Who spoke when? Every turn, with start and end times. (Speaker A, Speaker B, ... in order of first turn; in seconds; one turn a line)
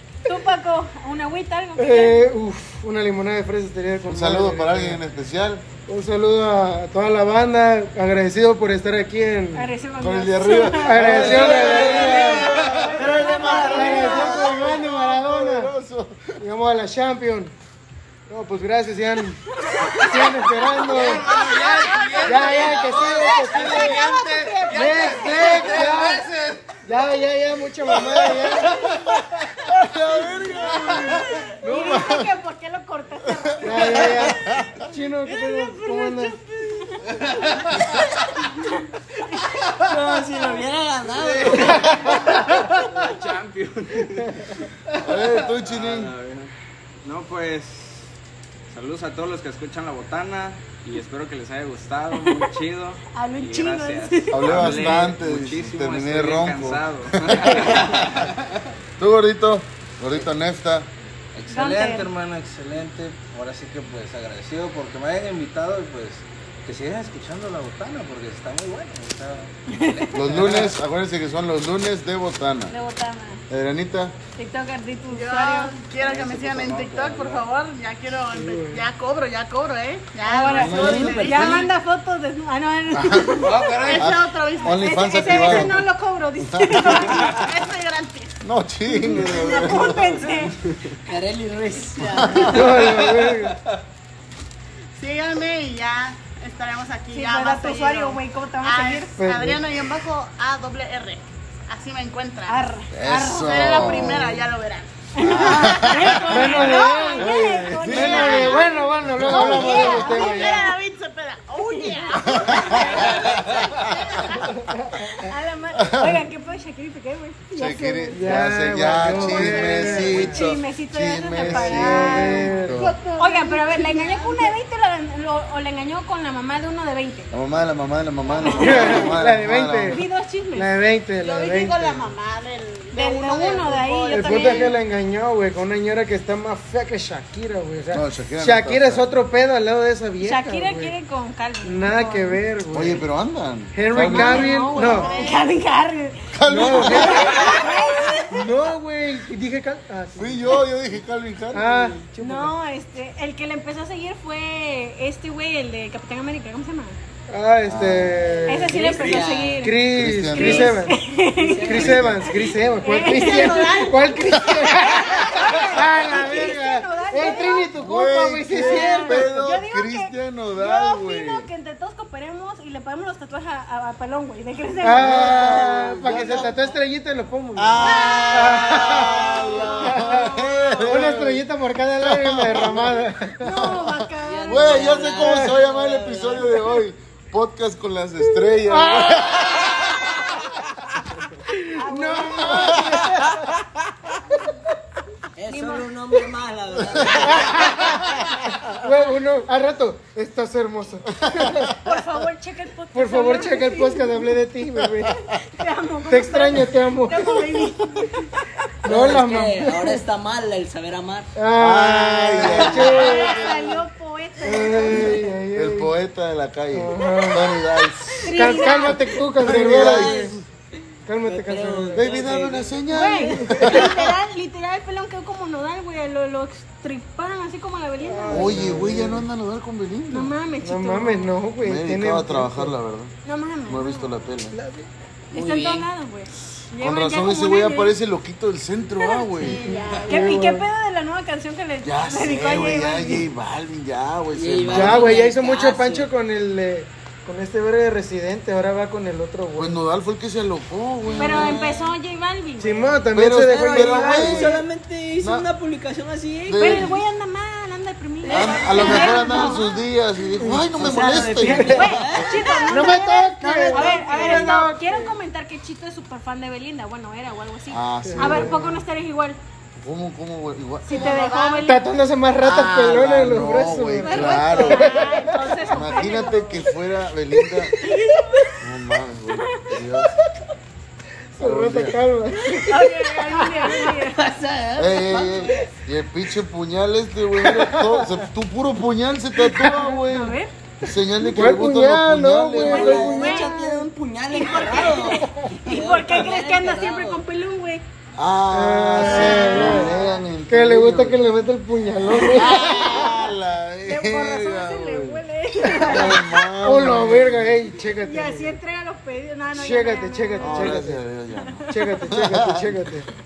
Speaker A: 0.2-2.2
Speaker B: 1.8-5.0
Speaker C: 4.1-5.6
Speaker B: 5.9-9.7
Speaker A: 9.5-14.7
Speaker C: 10.0-16.4
Speaker B: 10.8-15.7
Speaker D: 12.9-14.2
Speaker B: 16.4-17.5
Speaker B: 18.3-21.2
Speaker A: 19.5-25.9
Speaker E: 20.9-26.8
Speaker F: 20.9-23.2
Speaker B: 22.2-24.0
Speaker B: 24.7-26.3
Speaker F: 25.7-26.0
Speaker B: 26.9-28.9
Speaker C: 29.7-32.4
Speaker A: 30.3-34.4
Speaker C: 33.5-34.8
Speaker B: 33.6-36.4
Speaker A: 35.2-37.3
Speaker A: 38.4-39.5
Speaker D: 39.8-43.1
Speaker F: 41.2-46.5
Speaker C: 45.0-46.1
Speaker F: 47.0-48.1
Speaker F: 48.7-58.5
Speaker A: 52.1-52.5
Speaker A: 53.1-54.9
Speaker C: 54.3-58.3
Speaker C: 59.0-60.9
Speaker E: 61.3-70.7
Speaker A: 61.5-62.1
Speaker A: 69.7-70.0
Speaker C: 70.1-72.7
Speaker A: 72.7-73.4
Speaker C: 73.5-74.2
Speaker A: 74.4-75.8
Speaker G: 75.1-81.7
Speaker F: 76.0-77.4
Speaker B: 78.3-78.8
Speaker A: 80.2-87.4
Speaker C: 80.5-81.2
Speaker D: 80.5-81.7
Speaker C: 82.9-83.4
Speaker E: 83.3-84.1
Speaker G: 83.7-85.5
Speaker C: 84.0-85.9
Speaker C: 86.4-87.2
Speaker G: 87.0-88.4
Speaker C: 88.4-90.4
Speaker A: 88.9-90.6
Speaker D: 91.0-92.8
Speaker C: 92.1-92.8
Speaker B: 92.4-93.6
Speaker G: 95.0-102.7
Speaker A: 97.1-99.1
Speaker B: 99.2-99.6
Speaker A: 102.5-104.0
Speaker C: 102.9-104.5
Speaker G: 103.4-104.9
Speaker A: 105.1-110.7
Speaker C: 105.2-110.0
Speaker B: 106.3-107.3
Speaker B: 107.9-110.8
Speaker G: 109.3-114.4
Speaker A: 111.8-114.5
Speaker C: 112.3-113.3
Speaker B: 114.6-115.3
Speaker A: 115.1-118.4
Speaker C: 115.7-116.2
Speaker C: 117.5-123.0
Speaker B: 118.1-120.4
Speaker A: 119.3-127.3
Speaker B: 121.5-122.9
Speaker G: 122.7-124.6
Speaker C: 127.3-130.0
Speaker A: 128.4-129.1
Speaker B: 128.6-130.0
Speaker A: 129.9-130.7
Speaker B: 130.5-132.2
Speaker G: 131.2-134.8
Speaker A: 132.9-134.7
Speaker B: 134.1-140.9
Speaker C: 137.9-139.2
Speaker A: 140.2-142.4
Speaker B: 141.6-143.0
Speaker C: 142.7-144.6
Speaker B: 143.7-145.1
Speaker A: 143.9-148.4
Speaker G: 144.7-145.5
Speaker C: 146.3-147.4
Speaker B: 146.4-147.6
Speaker B: 148.3-150.6
Speaker C: 150.2-151.9
Speaker B: 151.5-152.5
Speaker A: 152.2-157.0
Speaker B: 157.3-159.1
Speaker C: 157.7-158.4
Speaker A: 158.5-164.2
Speaker D: 158.6-159.7
Speaker B: 159.6-161.0
Speaker C: 159.9-160.8
Speaker D: 161.3-164.2
Speaker B: 161.6-169.2
Speaker C: 161.7-162.2
Speaker C: 164.3-164.6
Speaker A: 164.7-167.7
Speaker C: 165.2-165.5
Speaker C: 167.8-171.5
Speaker A: 168.6-175.4
Speaker B: 174.8-180.2
Speaker C: 175.0-176.4
Speaker D: 175.0-176.7
Speaker C: 177.6-181.4
Speaker A: 177.8-180.9
Speaker B: 180.8-183.6
Speaker C: 182.0-190.3
Speaker A: 183.4-185.3
Speaker D: 184.2-186.7
Speaker B: 185.1-185.5
Speaker B: 188.6-190.4
Speaker B: 191.4-193.6
Speaker A: 191.8-193.1
Speaker C: 192.4-193.4
Speaker D: 195.4-197.9
Speaker A: 195.5-195.8
Speaker C: 196.9-197.5
Speaker B: 197.3-201.7
Speaker C: 201.2-202.0
Speaker A: 201.8-204.3
Speaker B: 202.9-205.2
Speaker A: 205.3-208.4
Speaker B: 206.1-208.0
Speaker B: 208.8-210.0
Speaker D: 208.8-211.3
Speaker B: 211.3-213.6
Speaker C: 211.6-213.7
Speaker D: 212.4-212.9
Speaker A: 212.8-215.3
Speaker B: 214.4-215.9
Speaker C: 215.5-218.6
Speaker B: 216.7-217.5
Speaker A: 218.2-219.2
Speaker B: 218.3-220.4
Speaker C: 219.4-220.2
Speaker D: 219.4-220.4
Speaker B: 221.1-222.0
Speaker D: 221.2-222.8
Speaker C: 221.9-224.0
Speaker A: 222.9-228.7
Speaker B: 223.5-223.8
Speaker B: 228.0-229.3
Speaker C: 228.3-230.3
Speaker A: 230.1-231.3
Speaker B: 230.6-232.7
Speaker C: 231.6-233.1
Speaker A: 233.2-234.1
Speaker C: 233.7-234.6
Speaker B: 234.5-234.9
Speaker D: 235.3-235.9
Speaker A: 235.3-237.9
Speaker C: 236.8-239.6
Speaker A: 239.0-243.2
Speaker G: 239.6-240.1
Speaker B: 239.7-240.7
Speaker C: 241.8-245.1
Speaker D: 244.3-246.1
Speaker B: 244.7-249.8
Speaker C: 249.5-251.6
Speaker D: 251.0-251.9
Speaker A: 251.2-253.0
Speaker B: 252.6-254.7
Speaker C: 253.1-254.6
Speaker D: 253.3-257.0
Speaker C: 255.2-255.5
Speaker C: 256.5-256.9
Speaker A: 256.5-259.6
Speaker D: 258.2-259.8
Speaker C: 258.3-262.4
Speaker B: 260.4-260.7
Speaker D: 260.6-264.5
Speaker B: 261.4-261.9
Speaker A: 261.6-269.4
Speaker B: 262.5-265.1
Speaker C: 267.7-268.6
Speaker B: 268.0-268.8
Speaker C: 269.8-271.2
Speaker A: 270.8-271.8
Speaker G: 270.9-271.7
Speaker B: 271.6-275.5
Speaker C: 272.4-277.7
Speaker A: 274.0-276.7
Speaker A: 277.8-278.5
Speaker D: 277.8-278.5
Speaker C: 278.6-280.1
Speaker A: 279.3-279.6
Speaker B: 281.3-282.9
Speaker C: 281.4-282.0
Speaker A: 282.6-284.2
Speaker D: 282.7-285.7
Speaker B: 283.4-283.8
Speaker C: 284.8-293.1
Speaker B: 287.8-288.2
Speaker B: 289.5-289.9
Speaker A: 290.1-290.5
Speaker B: 291.3-293.8
Speaker D: 292.6-297.2
Speaker A: 292.7-297.8
Speaker C: 298.2-301.2
Speaker B: 298.5-303.1
Speaker A: 299.1-300.2
Speaker D: 299.4-299.8
Speaker C: 302.2-305.2
Speaker A: 302.5-303.3
Speaker A: 303.8-306.5
Speaker B: 305.6-308.6
Speaker C: 305.8-307.7
Speaker A: 308.0-311.7
Speaker B: 309.5-311.0
Speaker C: 310.4-312.8
Speaker B: 311.7-313.1